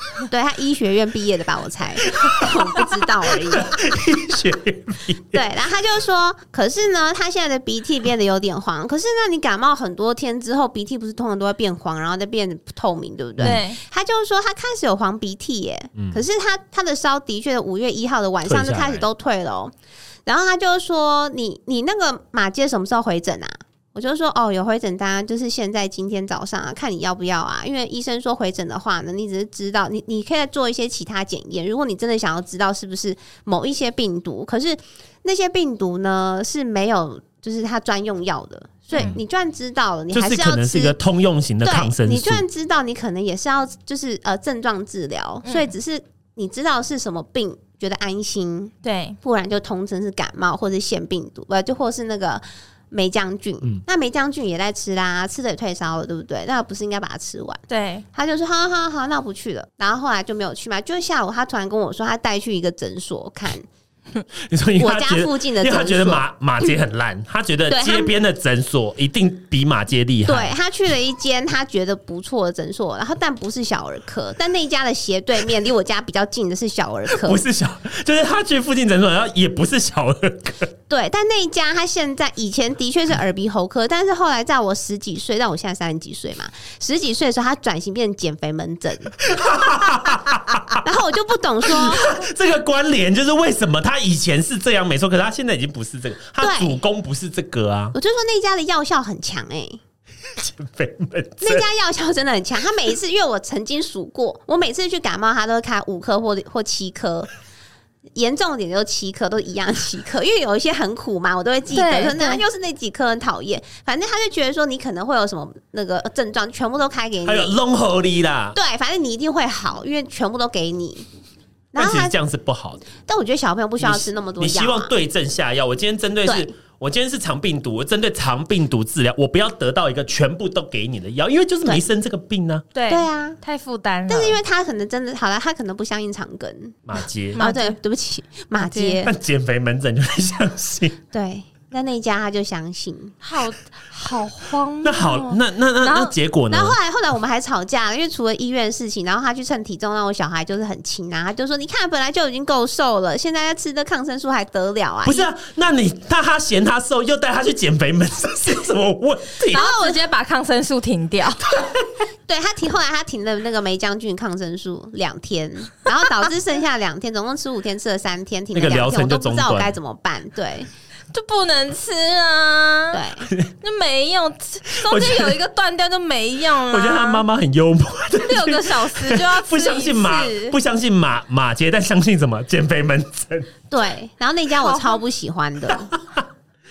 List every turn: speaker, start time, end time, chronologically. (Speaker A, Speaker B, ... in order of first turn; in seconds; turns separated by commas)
Speaker A: 0.3-3.8, Speaker B: 2.2-5.4, Speaker A: 5.3-19.7, Speaker C: 13.4-13.8, Speaker B: 18.4-19.1, Speaker A: 20.3-41.0, Speaker B: 40.1-42.5, Speaker A: 41.6-57.6, Speaker C: 45.5-45.7, Speaker C: 48.8-49.2, Speaker C: 57.7-58.1, Speaker A: 58.1-63.7, Speaker B: 64.4-70.5, Speaker A: 64.8-66.2, Speaker A: 67.7-68.1, Speaker A: 70.3-77.4, Speaker B: 77.1-80.7, Speaker A: 80.9-92.2, Speaker B: 89.2-90.8, Speaker B: 91.7-98.0, Speaker A: 96.4-96.8, Speaker A: 97.9-99.8, Speaker B: 100.3-101.7, Speaker A: 101.4-107.3, Speaker A: 108.2-117.5, Speaker C: 111.7-112.4, Speaker B: 117.2-118.6, Speaker A: 118.5-121.1, Speaker A: 121.7-122.2, Speaker B: 121.8-122.9, Speaker A: 123.1-124.9, Speaker B: 123.8-132.7, Speaker A: 126.3-126.5, Speaker C: 132.8-134.4, Speaker A: 132.9-133.4, Speaker A: 134.1-136.8, Speaker B: 136.9-137.4, Speaker A: 137.3-139.1, Speaker C: 137.4-137.8, Speaker C: 138.6-139.0, Speaker B: 139.0-141.0, Speaker A: 141.1-143.2, Speaker C: 143.2-146.1, Speaker B: 144.8-146.8, Speaker A: 146.5-155.3, Speaker B: 155.1-159.6, Speaker C: 159.5-161.5, Speaker A: 159.5-160.0, Speaker A: 162.3-170.7, Speaker B: 168.5-169.8, Speaker C: 171.1-173.0, Speaker A: 172.9-173.3, Speaker C: 173.6-177.2, Speaker B: 174.8-175.4, Speaker B: 176.7-183.5, Speaker C: 178.2-180.6, Speaker A: 183.7-185.9, Speaker C: 184.6-185.0, Speaker B: 185.7-186.3